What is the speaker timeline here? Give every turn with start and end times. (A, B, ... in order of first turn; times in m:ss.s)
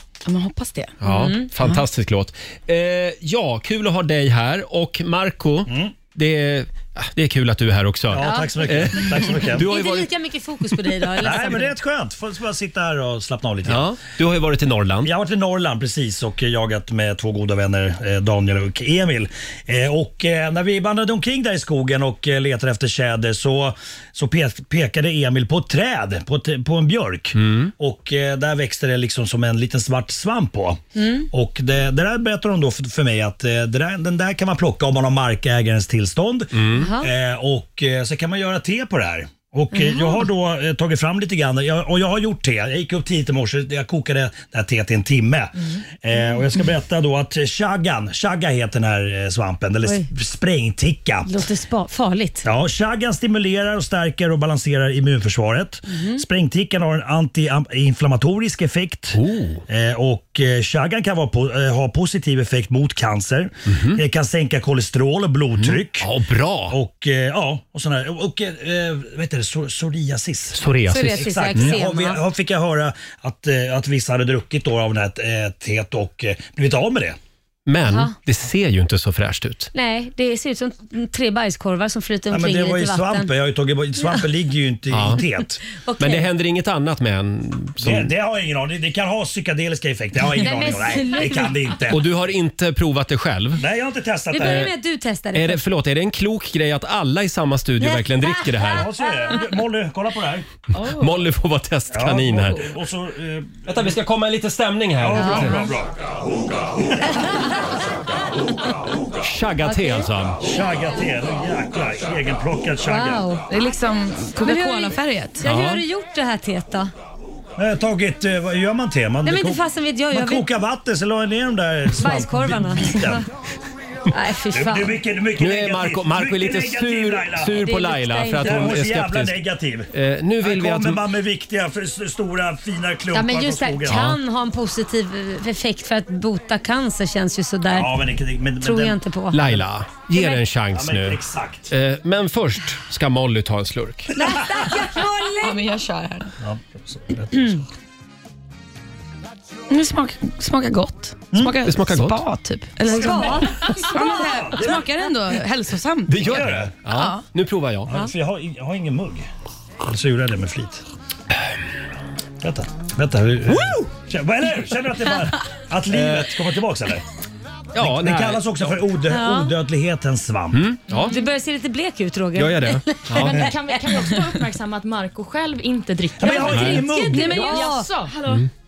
0:00.2-0:01.0 A
0:01.0-0:10.1 B
0:01.0-0:01.5 C
0:05.7-0:06.0 D
0:08.1-0:09.7 D
0:08.2-0:08.5 C
0:09.6-0:11.7 C
0:11.2-0:13.9 D
0:13.7-0:15.1 B
0:15.0-0:51.3 D
0:27.4-0:27.7 B
0:31.0-0:31.3 C
0:36.5-0:36.9 B
0:36.8-0:37.1 C
0:39.7-0:40.2 C
0:51.3-0:52.5 C
0:52.4-1:06.1 D
0:55.9-0:56.2 C
0:59.1-0:59.6 B
1:03.7-1:04.0 B
1:05.6-1:06.8 B
1:06.7-1:17.2 D
1:10.5-1:11.8 B
1:10.9-1:12.2 C
1:17.7-1:19.7 B
1:17.9-1:18.1 C
1:19.7-1:23.3 C
1:22.3-1:25.6 D
1:24.9-1:25.2 B
1:25.8-1:26.3 C
1:26.0-1:28.1 B
1:27.8-1:32.0 D
1:30.4-1:31.7 C
1:31.9-1:33.6 B
1:33.6-1:34.7 D
1:34.3-1:35.6 C
1:34.4-1:34.7 B
1:35.3-1:38.9 B
1:37.8-1:38.8 C
1:38.7-1:40.5 D
1:40.8-1:42.6 B
1:41.9-1:43.9 D
1:43.7-1:45.7 B
1:45.0-1:46.1 D
1:45.2-1:45.7 C
1:47.1-1:47.5 C
1:49.2-1:50.4 B
1:49.6-1:50.1 C
1:50.4-1:53.2 D
1:52.9-1:53.4 C
1:53.5-1:55.4 A
1:54.4-1:56.9 C
1:55.4-1:55.8 B
1:57.6-2:03.2 D
1:59.2-2:00.4 C
2:02.0-2:03.2 C
2:04.1-2:05.0 C
2:04.5-2:07.6 D
2:05.4-2:09.4 B
2:07.6-2:08.7 C
2:08.4-2:09.9 D
2:09.9-2:11.0 B
2:10.4-2:14.0 D
2:13.1-2:18.0 C
2:13.9-2:14.2 B
2:17.7-2:19.0 D
2:18.6-2:19.4 C
2:19.3-2:24.1 B
2:20.1-2:20.4 C
2:20.7-2:21.7 D
2:24.2-2:25.6 C
2:25.4-2:26.3 A
2:26.4-2:27.6 D
2:27.3-2:27.6 C
2:29.7-2:37.2 A
2:31.6-2:32.2 B
2:32.9-2:34.2 C
2:34.3-2:34.8 D
2:36.1-2:37.9 B
2:36.2-2:36.8 D
2:37.9-2:39.3 D
2:39.8-2:40.8 D
2:42.4-2:47.0 D
2:43.5-2:43.9 B
2:45.9-2:46.4 B
2:47.7-2:48.8 B
2:47.8-2:50.6 D
2:49.1-2:49.5 C
2:50.5-2:51.2 B
2:50.9-2:51.2 E
2:51.1-2:53.8 C
2:52.4-2:53.5 B
2:53.3-2:58.2 E
2:56.2-2:57.7 D
2:56.3-2:57.9 C
2:56.5-2:56.8 B
2:58.2-2:58.5 B